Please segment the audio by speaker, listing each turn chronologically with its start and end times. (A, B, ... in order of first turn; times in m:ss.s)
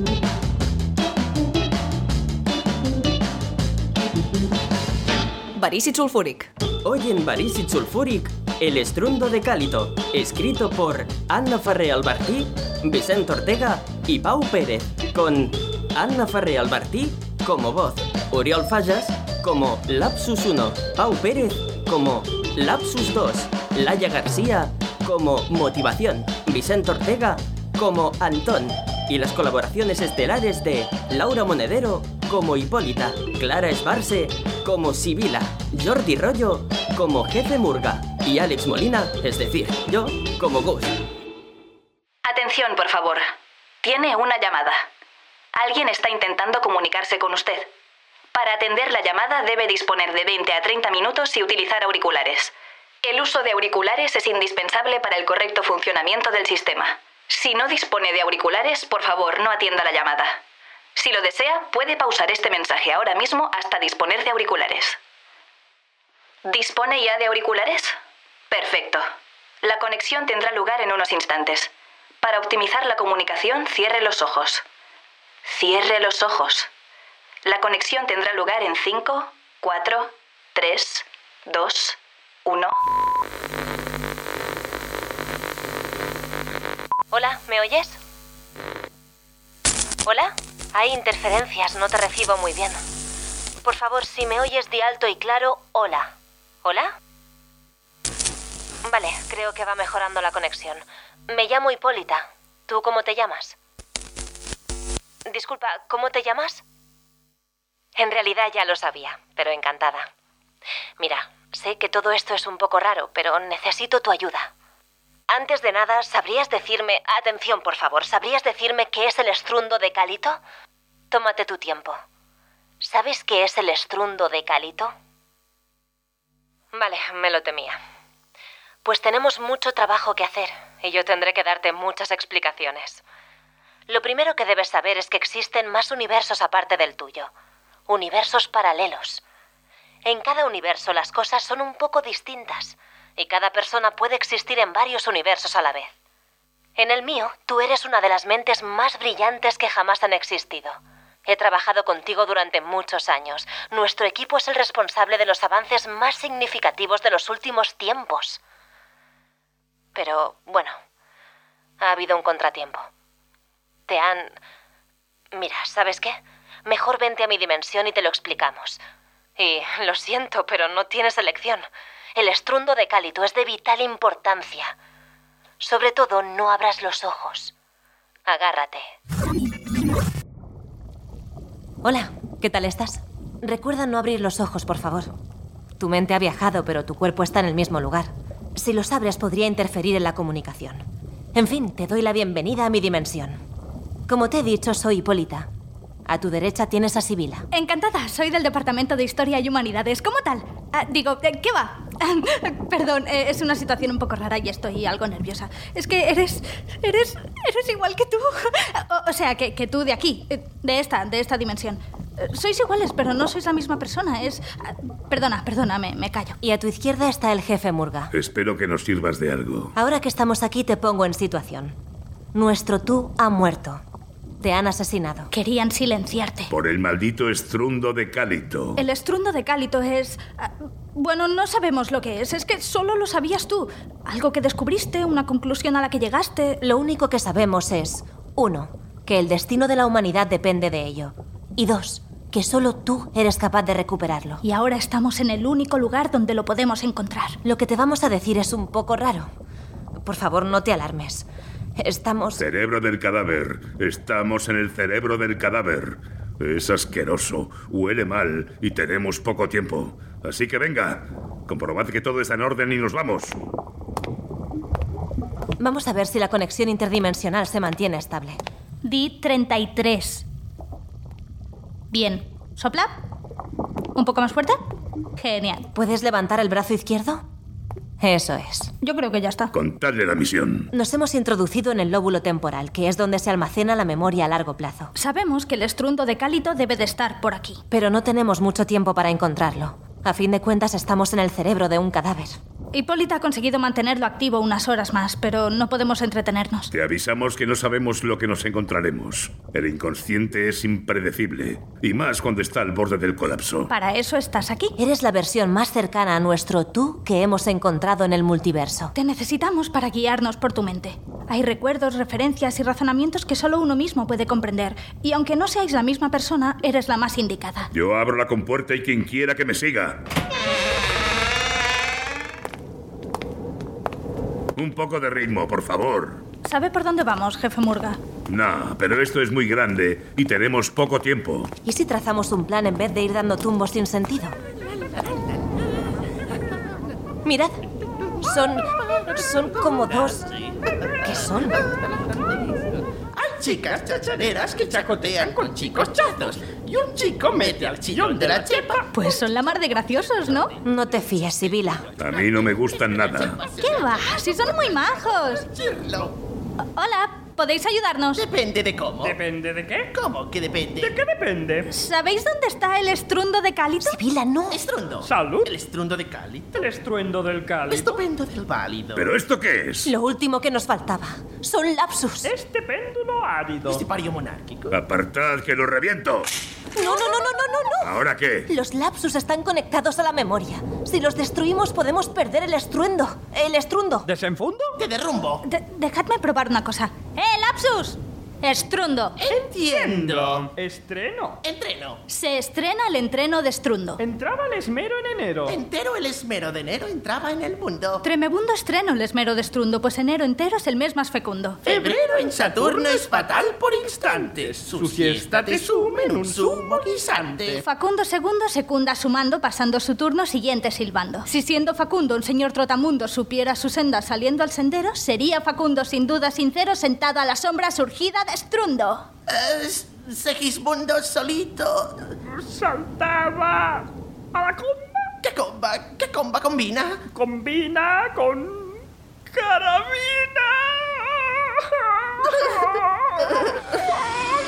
0:06.8-0:41.0 A
0:42.2-0:43.3 B
0:43.8-0:44.8 B
0:45.5-0:47.7 B
0:48.3-1:00.3 B
1:01.0-1:05.0 B
1:06.4-1:07.9 B
1:08.5-1:09.0 B
1:09.6-1:11.7 B
1:12.2-1:14.6 B
1:15.4-1:16.7 B
1:17.4-1:22.7 B
1:27.1-1:28.0 C
1:30.0-1:32.8 C
1:33.6-1:36.9 C
1:38.8-1:43.6 C
1:45.3-1:46.6 C
1:48.0-1:50.1 C
1:51.0-1:54.5 C
1:55.3-2:00.4 C
2:01.1-2:02.0 C
2:02.8-2:04.9 C
2:06.7-2:07.8 C
2:08.8-2:13.0 C
2:13.9-2:17.3 C
2:17.9-2:19.2 C
2:20.0-2:25.9 C
2:26.8-2:38.4 C
2:39.9-2:40.7 C
2:41.8-2:42.9 C
2:43.9-2:44.4 C
2:45.3-2:48.8 C
2:49.4-2:54.7 C
2:55.6-2:57.5 C
2:58.2-2:58.8 C
3:01.8-3:05.1 C
3:05.8-3:13.4 C
3:14.1-3:15.5 C
3:16.1-3:17.4 C
3:17.5-3:36.4 D
3:36.4-3:38.1 C
3:38.1-3:39.7 E
3:39.8-3:41.8 C
3:42.3-3:43.8 C
3:44.4-3:45.3 C
3:45.3-3:46.5 D
3:46.5-3:48.8 E
3:48.8-3:56.6 D
3:56.6-4:04.4 C
4:04.4-4:07.4 D
4:07.4-4:09.3 C
4:10.0-4:12.4 C
4:12.4-4:23.4 E
4:25.6-4:28.4 C
4:28.8-4:30.2 D
4:31.9-4:32.9 D
4:34.0-4:34.6 D
4:35.2-4:35.7 D
4:35.7-4:37.2 C
4:38.0-4:38.7 C
4:38.8-4:39.5 D
4:39.5-4:40.7 E
4:40.7-4:44.9 C
4:44.9-4:47.6 D
4:47.7-4:52.4 C
4:52.7-4:56.7 D
4:56.7-5:03.7 E
5:03.7-5:04.8 D
5:04.8-5:08.9 C
5:08.9-5:17.7 D
5:17.7-5:20.0 E
5:24.6-5:26.2 E
5:26.4-5:28.0 D
5:28.3-5:31.5 E
5:31.6-5:34.4 C
5:37.2-5:37.5 C
5:38.2-5:40.3 C
5:41.0-5:41.6 C
5:43.1-5:48.8 F
5:43.4-5:46.6 G
5:47.2-5:48.8 G
5:48.9-5:50.5 D
5:50.6-5:51.9 C
5:52.0-5:53.4 E
5:53.0-5:54.0 F
5:53.6-5:55.4 D
5:55.4-5:56.1 F
5:56.8-5:58.2 D
5:58.2-5:59.2 F
5:59.0-5:59.9 G
5:59.9-6:01.0 F
6:00.8-6:01.7 G
6:01.7-6:04.0 D
6:03.8-6:04.6 C
6:04.5-6:06.6 F
6:05.0-6:05.5 G
6:06.6-6:08.0 G
6:07.7-6:09.1 F
6:09.0-6:09.9 E
6:09.8-6:12.3 C
6:12.2-6:13.8 G
6:13.6-6:14.8 F
6:14.7-6:16.3 E
6:16.7-6:17.9 C
6:17.8-6:18.5 E
6:18.5-6:24.1 C
6:24.0-6:24.8 G
6:24.8-6:25.4 F
6:25.4-6:29.2 D
6:29.2-6:30.5 F
6:29.3-6:31.4 G
6:31.4-6:32.0 F
6:32.1-6:34.0 D
6:34.0-6:35.6 G
6:35.4-6:38.0 F
6:38.0-6:41.6 D
6:41.6-6:47.6 F
6:41.6-6:47.6 G
6:47.6-6:59.1 D
6:59.3-7:02.0 F
7:02.3-7:05.1 G
7:05.2-7:07.0 F
7:07.1-7:13.4 G